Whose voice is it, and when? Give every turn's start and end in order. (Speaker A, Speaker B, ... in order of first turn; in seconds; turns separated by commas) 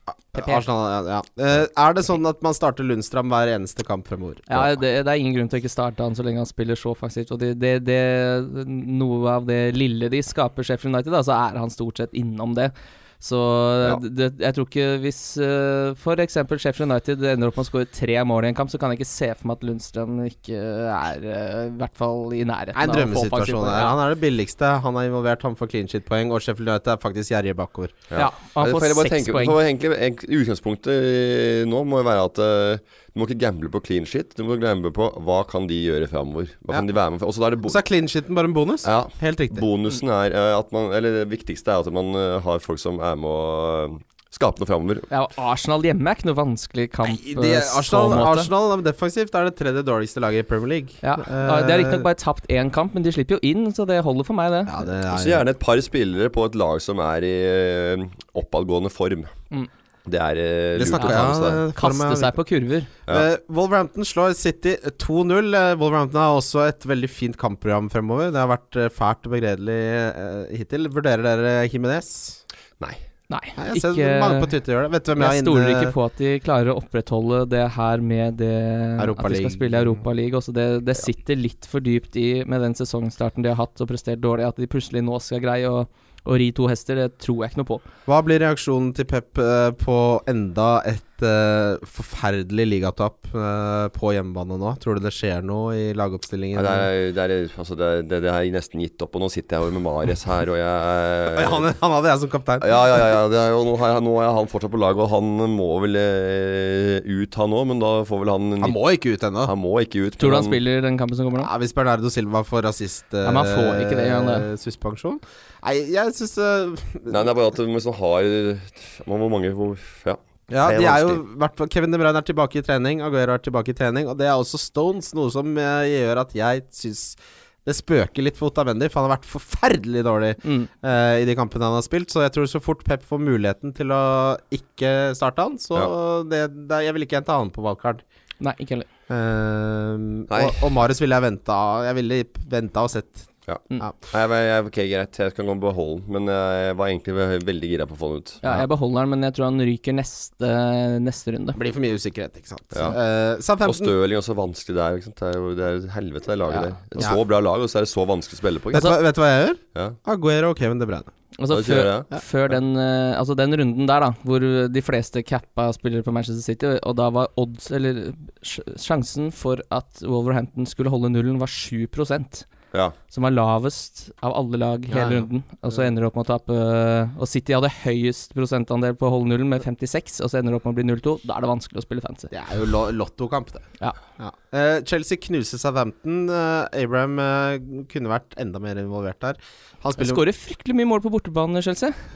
Speaker A: 0.3-4.7, Speaker B: 0.4-0.6, Speaker B: 4.5-24.0, Speaker A: 22.7-27.9, Speaker C: 28.1-37.8, Speaker B: 28.1-29.6, Speaker A: 37.6-39.6, Speaker C: 38.8-45.1, Speaker B: 45.1-48.5, Speaker A: 47.0-52.0, Speaker B: 51.0-54.8, Speaker A: 54.7-55.5, Speaker C: 55.1-59.3, Speaker C: 60.0-61.6, Speaker A: 60.7-62.4, Speaker B: 61.0-62.9, Speaker A: 63.1-72.4, Speaker B: 73.3-74.5, Speaker A: 73.6-75.9, Speaker B: 75.2-87.8, Speaker A: 79.0-80.0, Speaker A: 88.1-96.9, Speaker C: 96.5-101.6, Speaker A: 101.3-102.8, Speaker C: 102.6-108.8, Speaker A: 108.6-109.5, Speaker C: 109.4-110.6, Speaker B: 110.2-111.5, Speaker A: 111.4-117.2, Speaker B: 113.2-114.5, Speaker C: 117.1-121.2, Speaker A: 120.5-138.0, Speaker B: 130.4-130.7, Speaker B: 138.4-138.9, Speaker A: 139.1-143.3, Speaker C: 140.3-140.6, Speaker C: 143.5-148.4, Speaker B: 148.4-151.6, Speaker A: 151.6-153.9, Speaker C: 153.6-158.9, Speaker A: 158.7-161.1, Speaker B: 161.4-172.4, Speaker C: 161.5-162.6, Speaker B: 173.1-182.3, Speaker A: 174.9-175.8, Speaker A: 182.3-183.7, Speaker A: 184.2-190.2, Speaker B: 190.0-191.9